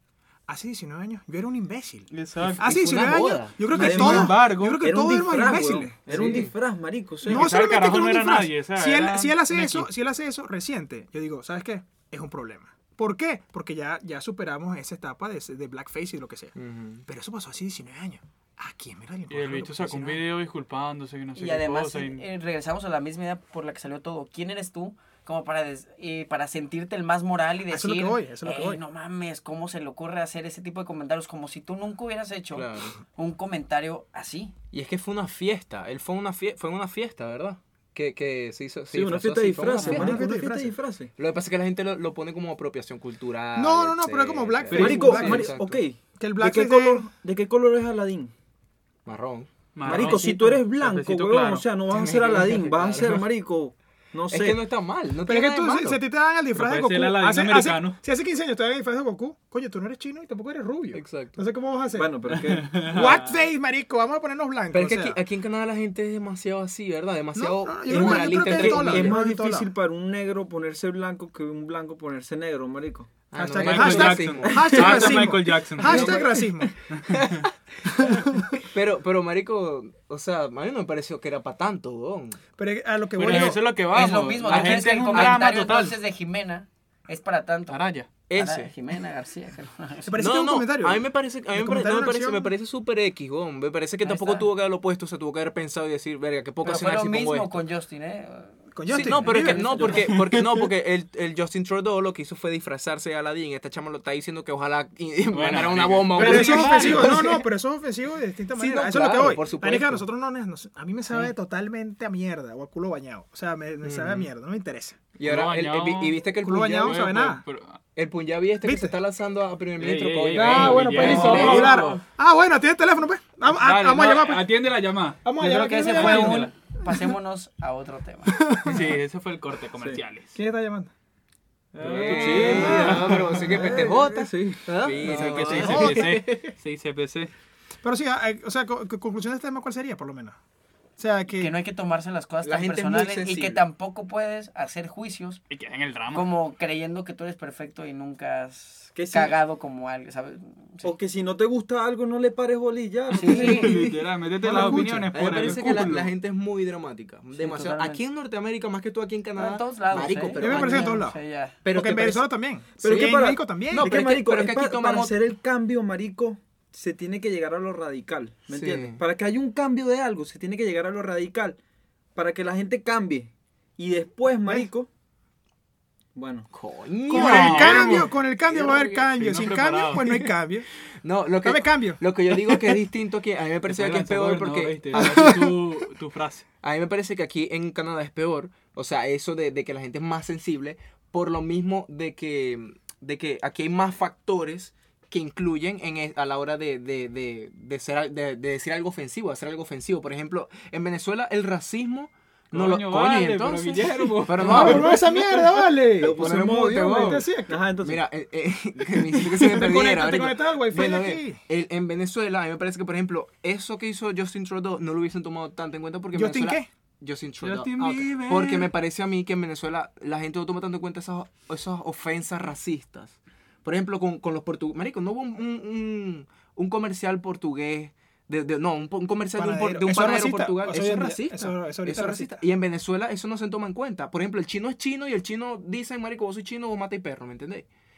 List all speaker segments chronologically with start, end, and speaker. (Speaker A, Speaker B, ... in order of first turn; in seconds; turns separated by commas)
Speaker A: 0.5-2.1, Speaker B: 2.1-2.7, Speaker C: 2.4-4.3, Speaker A: 2.6-6.0, Speaker B: 3.7-4.8, Speaker D: 3.8-7.5, Speaker C: 6.0-6.5, Speaker B: 7.2-9.9, Speaker A: 7.3-20.2, Speaker C: 16.5-17.0, Speaker B: 19.3-22.2, Speaker E: 21.3-34.5, Speaker A: 27.7-28.8, Speaker C: 32.5-33.0, Speaker C: 34.7-40.2, Speaker D: 38.9-41.1, Speaker A: 39.8-40.7, Speaker C: 41.2-45.8, Speaker A: 43.5-45.5, Speaker B: 44.7-45.2, Speaker D: 44.7-48.3, Speaker A: 46.2-47.1, Speaker C: 49.0-50.2, Speaker B: 49.7-51.6, Speaker D: 49.8-54.6, Speaker C: 51.9-53.2, Speaker C: 54.3-56.0, Speaker A: 55.2-62.1, Speaker B: 56.5-58.0, Speaker C: 60.9-61.4, Speaker D: 61.9-62.8, Speaker B: 62.4-63.3, Speaker A: 62.8-65.2, Speaker C: 64.7-69.2, Speaker A: 67.3-69.7, Speaker D: 67.9-73.1, Speaker C: 73.3-76.5, Speaker A: 73.3-76.7, Speaker B: 73.6-76.2, Speaker B: 77.0-77.4, Speaker C: 77.1-78.1, Speaker A: 77.8-78.6, Speaker C: 78.6-82.4, Speaker A: 82.6-83.7, Speaker B: 83.2-86.0, Speaker E: 83.9-87.8, Speaker C: 84.4-85.6, Speaker B: 87.7-88.1, Speaker C: 88.3-88.7, Speaker E: 88.3-90.2, Speaker A: 90.0-92.5, Speaker C: 90.2-97.6, Speaker E: 94.0-94.5, Speaker E: 96.6-98.5, Speaker A: 98.7-100.1, Speaker C: 98.9-107.5, Speaker D: 99.7-100.0, Speaker B: 105.3-107.2, Speaker A: 106.1-115.0, Speaker C: 108.5-110.0, Speaker C: 113.8-114.3, Speaker C: 115.2-117.2, Speaker B: 115.2-116.2, Speaker A: 116.4-117.4, Speaker B: 116.8-117.8, Speaker C: 117.9-122.0, Speaker A: 118.6-119.0, Speaker B: 119.8-122.0, Speaker A: 120.3-124.5, Speaker B: 123.5-125.2, Speaker A: 125.2-127.0, Speaker E: 125.3-128.5, Speaker B: 125.8-126.5, Speaker A: 128.3-128.9, Speaker B: 128.6-130.3, Speaker A: 130.3-130.9, Speaker B: 131.7-133.5, Speaker C: 131.8-136.5, Speaker D: 131.9-135.6, Speaker A: 132.3-132.7, Speaker B: 135.0-137.3, Speaker A: 135.6-136.2, Speaker A: 137.8-140.4, Speaker A: 141.0-141.5, Speaker E: 141.3-145.4, Speaker C: 142.4-143.6, Speaker B: 145.5-146.3, Speaker E: 146.1-150.9, Speaker D: 148.9-149.3, Speaker D: 150.8-153.7, Speaker E: 153.1-153.8, Speaker B: 153.2-156.1, Speaker A: 154.4-155.8, Speaker C: 155.1-161.0, Speaker E: 157.3-158.0, Speaker E: 159.3-161.6, Speaker A: 160.4-163.9, Speaker C: 161.6-162.2, Speaker D: 162.8-171.6, Speaker C: 162.8-165.2, Speaker C: 168.5-169.0, Speaker D: 172.1-174.9, Speaker D: 176.1-176.5, Speaker C: 176.5-179.2, Speaker A: 177.1-180.7, Speaker B: 177.1-178.1, Speaker B: 179.2-180.1, Speaker C: 181.0-185.4, Speaker A: 181.4-182.7, Speaker B: 183.7-186.4, Speaker A: 184.9-185.6, Speaker C: 186.6-237.7, Speaker B: 202.5-204.9, Speaker A: 204.4-207.6, Speaker D: 206.0-208.1, Speaker A: 208.9-211.4, Speaker A: 216.1-216.7, Speaker B: 217.4-218.7, Speaker A: 229.3-232.4